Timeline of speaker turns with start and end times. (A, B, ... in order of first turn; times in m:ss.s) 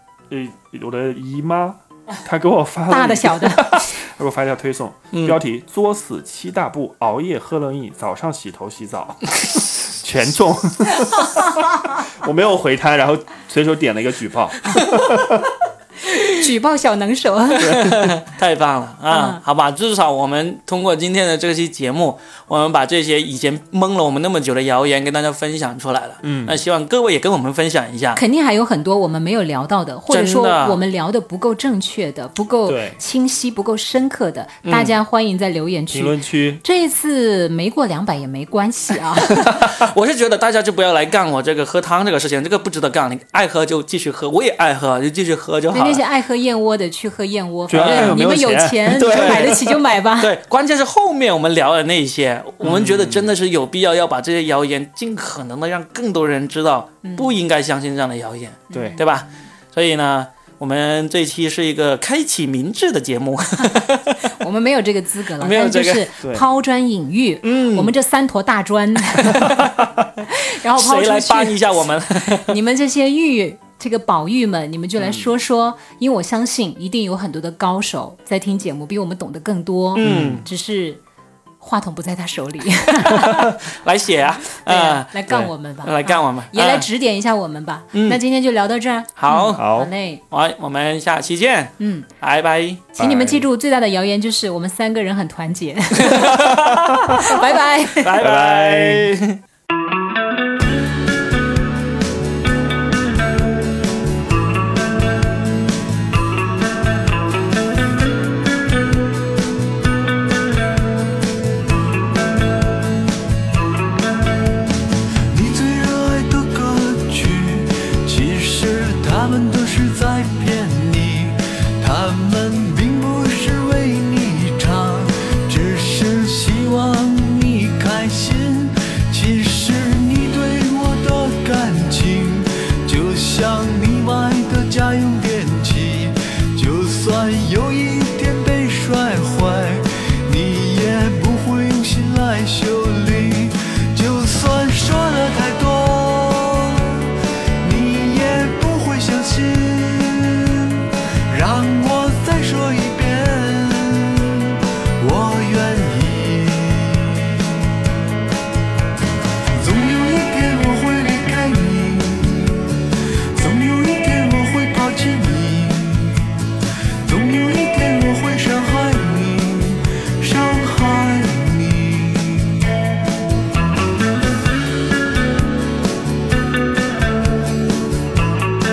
0:00.3-0:15.5 A
0:02.9-0:03.8 B
0:05.1-0:05.4 C
0:16.2-0:17.8 B
0:17.6-0:28.2 C
0:17.6-0:18.1 A
0:19.1-0:19.4 B
0:26.2-0:26.6 A
0:28.1-0:39.7 B
0:30.1-0:30.8 C
0:32.6-0:33.0 A
0:34.6-0:34.9 C
0:35.9-0:36.6 A
0:39.2-0:46.0 C
0:45.7-0:50.3 B
0:47.7-0:49.8 A
0:47.7-0:48.2 C
0:49.0-0:49.5 C
0:50.2-1:04.2 C
0:52.6-0:53.3 A
0:57.0-0:57.3 B
0:58.7-0:59.0 B
0:58.7-0:59.0 A
1:04.2-1:09.7 B
1:05.4-1:06.1 C
1:07.4-1:07.9 C
1:09.2-1:09.7 C
1:10.2-1:21.0 B
1:10.7-1:12.6 C
1:15.0-1:15.3 A
1:19.9-1:20.4 C
1:20.0-1:20.5 A
1:21.6-1:23.5 B
1:23.0-1:26.9 C
1:24.5-1:30.2 B
1:27.9-1:28.2 C
1:29.2-1:29.6 C
1:29.5-1:29.9 A
1:30.3-1:32.9 C
1:31.8-1:32.1 B
1:33.0-1:33.4 A
1:33.0-1:38.2 B
1:36.0-1:39.4 C
1:38.2-1:39.1 A
1:55.3-2:37.6 D
2:39.5-2:46.4 D
2:47.0-2:52.6 D